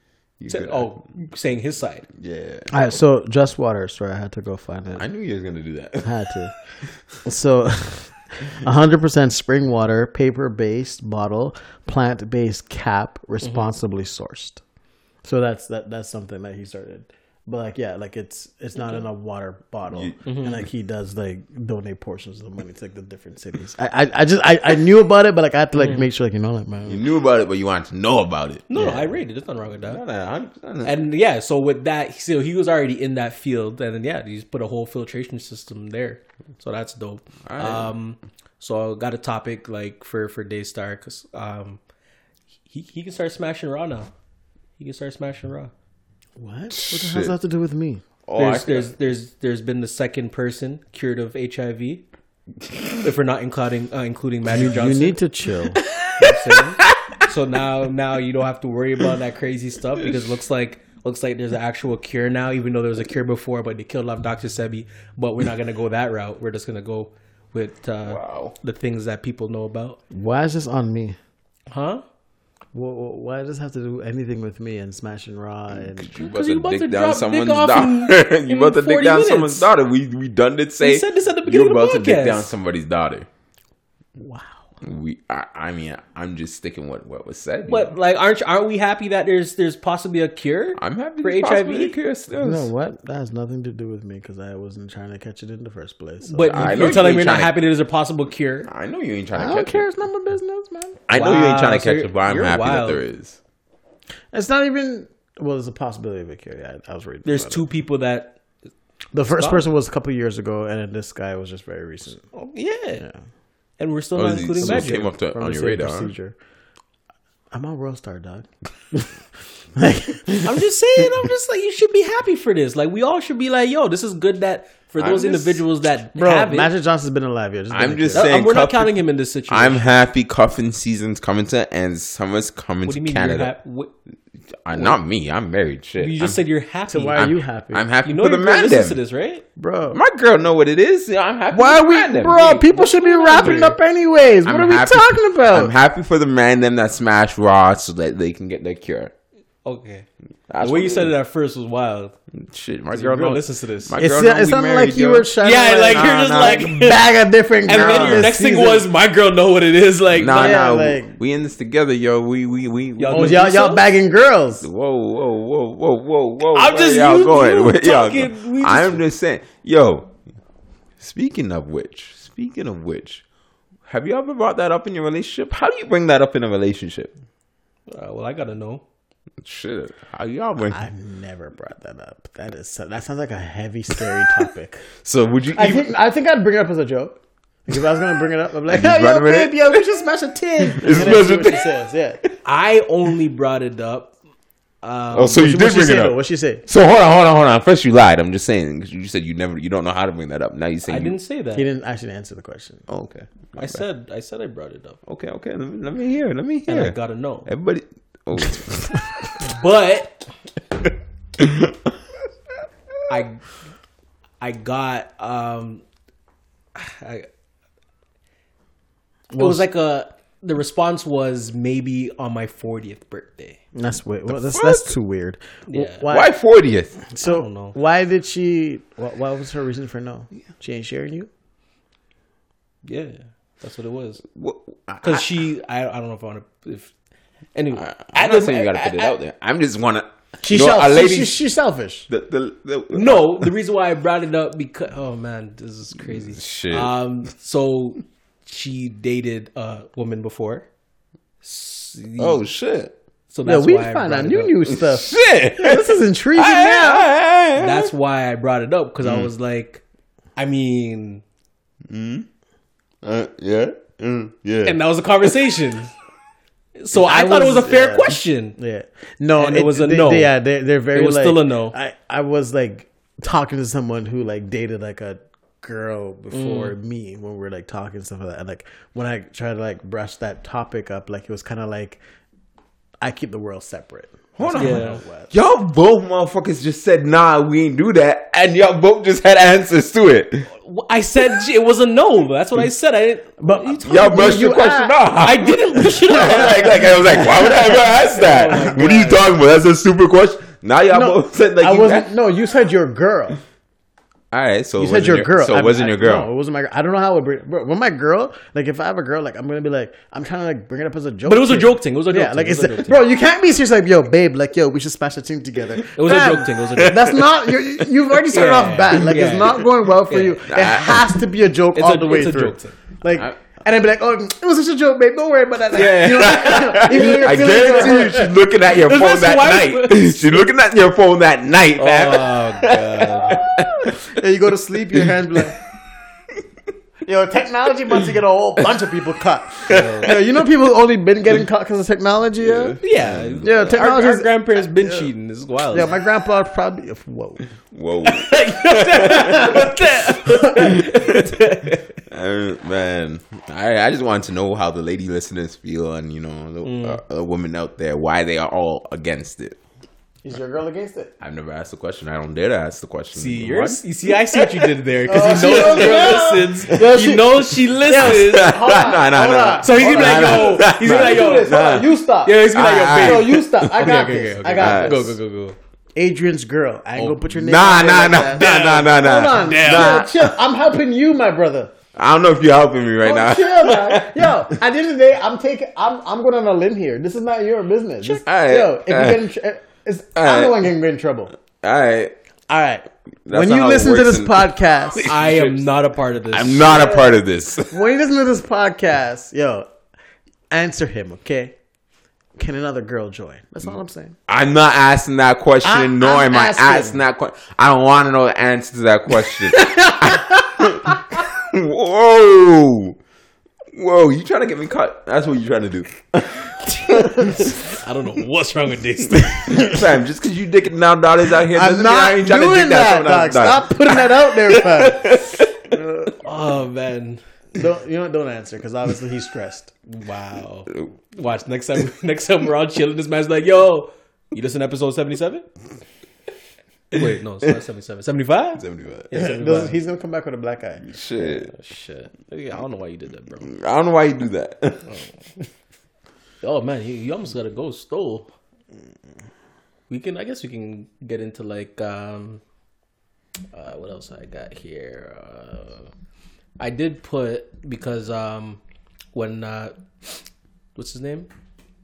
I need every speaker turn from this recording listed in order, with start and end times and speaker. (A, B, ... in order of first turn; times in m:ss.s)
0:00.4-0:01.0 A
0:00.5-0:02.1 B
0:02.1-0:02.8 A
0:02.7-0:05.0 C
0:05.0-0:06.4 A
0:06.0-0:06.5 C
0:07.2-0:14.6 C
0:15.2-0:27.0 C
0:18.8-0:19.0 B
0:19.9-0:20.2 A
0:20.2-0:20.6 B
0:25.8-0:26.0 B
0:26.8-0:28.7 A
0:28.7-0:30.0 B
0:28.7-0:29.1 C
0:29.8-0:31.0 A
0:30.8-0:41.8 B
0:37.4-0:37.9 A
0:42.7-0:44.1 B
0:44.8-0:45.7 B
0:46.4-0:48.0 C
0:46.7-0:47.3 A
0:48.2-0:48.9 A
0:48.4-0:52.0 B
0:53.0-0:55.2 B
0:54.5-0:56.8 C
0:56.0-1:10.0 B
1:08.0-1:08.5 A
1:10.1-1:11.2 C
1:11.7-1:12.0 B
1:12.7-1:16.1 C
1:15.7-1:23.3 A
1:16.2-1:19.7 B
1:20.8-1:22.5 B
1:24.2-1:24.6 C
1:24.8-1:27.9 A
1:27.7-1:32.0 B
1:30.8-1:32.7 A
1:32.4-1:37.1 C
1:36.2-1:38.7 B
1:36.5-1:37.6 A
1:38.6-1:39.9 A
1:39.3-1:41.0 C
1:41.1-1:43.4 A
1:41.1-1:43.0 B
1:44.3-1:47.6 C
1:47.2-1:48.4 B
1:49.1-1:52.2 C
1:49.4-1:49.6 B
1:52.3-1:53.0 B
1:53.8-1:55.1 B
1:54.2-1:56.1 A
1:54.6-1:56.4 C
1:57.5-1:59.2 C
1:59.7-2:00.6 C
2:00.4-2:06.7 B
2:05.0-2:05.6 A
2:06.2-2:08.4 C
2:07.7-2:13.5 A
2:08.1-2:09.8 B
2:12.8-2:13.9 B
2:14.6-2:16.4 A
2:16.0-2:17.3 B
2:16.9-2:17.8 C
2:17.2-2:19.0 A
2:18.0-2:19.4 B
2:19.6-2:20.0 C
2:19.9-2:22.7 A
2:21.5-2:25.7 C
2:22.7-2:23.8 B
2:24.4-2:29.1 A
2:29.6-2:30.1 B
2:30.5-2:31.1 A
2:30.6-2:32.1 B
2:32.3-2:37.0 A
2:32.9-2:33.9 B
2:34.0-2:38.8 C
2:35.4-2:37.0 B
2:37.7-2:40.6 B
2:37.7-2:38.3 A
2:40.1-2:43.5 A
2:40.3-2:41.2 C
2:43.0-2:43.8 B
2:43.1-2:44.7 C
2:44.6-2:50.1 A
2:46.5-2:49.0 B
2:51.0-2:53.2 A
2:53.8-2:57.1 A
2:57.9-2:58.8 B
2:59.4-3:00.8 A
3:00.7-3:04.9 C
3:05.0-3:05.9 A
3:05.5-3:12.2 C
3:08.7-3:09.8 A
3:10.6-3:12.3 A
3:12.4-3:14.1 B
3:14.8-3:15.4 B
3:15.1-3:21.2 A
3:15.3-3:16.6 C
3:20.8-3:21.7 B
3:21.5-3:22.8 C
3:22.9-3:23.8 A
3:23.6-3:25.0 B
3:25.1-3:29.3 A
3:26.7-3:27.5 B
3:29.4-3:30.2 B
3:31.4-3:31.7 A
3:33.1-3:33.4 B
3:34.4-3:35.8 B
3:36.7-3:37.3 B
3:39.3-3:39.6 C
3:39.3-3:43.6 B
3:43.7-3:46.3 C
3:44.3-3:44.9 A
3:45.7-3:46.0 B
3:46.0-3:47.0 A
3:47.1-3:51.3 C
3:47.2-3:47.8 B
3:52.8-3:54.2 B
3:54.3-3:55.3 A
3:55.0-3:56.9 B
3:57.5-3:59.1 B
3:57.7-4:01.4 A
4:00.4-4:02.1 C
4:02.1-4:03.5 A
4:02.9-4:10.7 B
4:06.1-4:06.9 A
4:11.4-4:12.4 B
4:12.2-4:12.9 A
4:13.3-4:14.6 B
4:13.4-4:17.1 C
4:14.7-4:17.9 A
4:17.6-4:19.8 B
4:19.0-4:19.3 A
4:20.4-4:21.2 B
4:21.9-4:22.2 A
4:23.0-4:25.4 A
4:24.6-4:25.9 B
4:26.8-4:28.6 B
4:26.9-4:42.0 C
4:29.4-4:30.3 B
4:30.9-4:31.7 B
4:36.3-4:36.8 B
4:43.0-4:45.3 C
4:44.4-4:50.5 A
4:44.6-4:45.0 B
4:50.6-4:54.4 B
4:53.4-4:55.0 C
4:53.8-5:02.1 A
4:55.2-4:59.3 B
4:57.2-4:57.5 C
5:00.9-5:03.4 C
5:04.3-5:06.3 A
5:04.8-5:28.3 C
5:11.3-5:13.0 B
5:15.9-5:17.1 B
5:18.3-5:20.4 B
5:20.5-5:21.1 A
5:21.7-5:22.8 B
5:25.7-5:28.1 B
5:25.9-5:34.0 A
5:28.7-5:30.5 B
5:31.8-5:33.5 B
5:33.8-5:35.6 C
5:34.9-5:35.5 A
5:37.0-5:42.8 C
5:39.6-5:40.1 A
5:39.7-5:40.1 B
5:42.4-5:43.5 A
5:42.8-5:45.9 B
5:43.4-5:45.1 C
5:45.7-5:47.4 C
5:47.7-5:49.8 A
5:48.0-5:52.0 B
5:49.1-5:49.7 C
5:50.4-5:51.3 A
5:52.1-5:59.6 A
5:56.6-5:57.0 B
6:00.2-6:01.1 C
6:01.2-6:04.5 A
6:03.1-6:08.6 B
6:05.1-6:15.1 C
6:05.2-6:06.4 A
6:08.0-6:11.9 A
6:09.6-6:15.6 B
6:12.5-6:15.1 A
6:15.9-6:21.7 C
6:17.3-6:20.4 A
6:18.4-6:20.0 B
6:21.9-6:24.5 A
6:23.0-6:31.3 C
6:28.0-6:29.3 A
6:30.1-6:30.7 A
6:31.6-6:32.1 A
6:32.5-6:35.1 C
6:33.2-6:35.6 A
6:35.0-6:37.0 B
6:36.3-6:37.8 A
6:36.7-6:39.7 C
6:40.5-6:41.6 C
6:42.4-6:44.2 C
6:44.3-6:53.0 A
6:45.6-6:47.0 C
6:49.8-6:50.1 B
6:53.7-6:57.6 A
6:57.3-6:59.6 B
6:59.2-7:05.6 A
6:59.5-6:59.8 C
7:01.5-7:06.2 C
7:06.2-7:07.2 B
7:07.5-7:09.7 C
7:09.9-7:15.5 B
7:16.9-7:19.8 B
7:18.6-7:19.1 A
7:19.1-7:20.8 C
7:20.8-7:21.5 A
7:21.2-7:23.5 B
7:23.4-7:24.9 A
7:24.8-7:25.1 B
7:26.4-7:28.3 B
7:29.9-7:32.4 B
7:33.5-7:35.9 B
7:36.6-7:38.6 B
7:39.1-7:41.3 B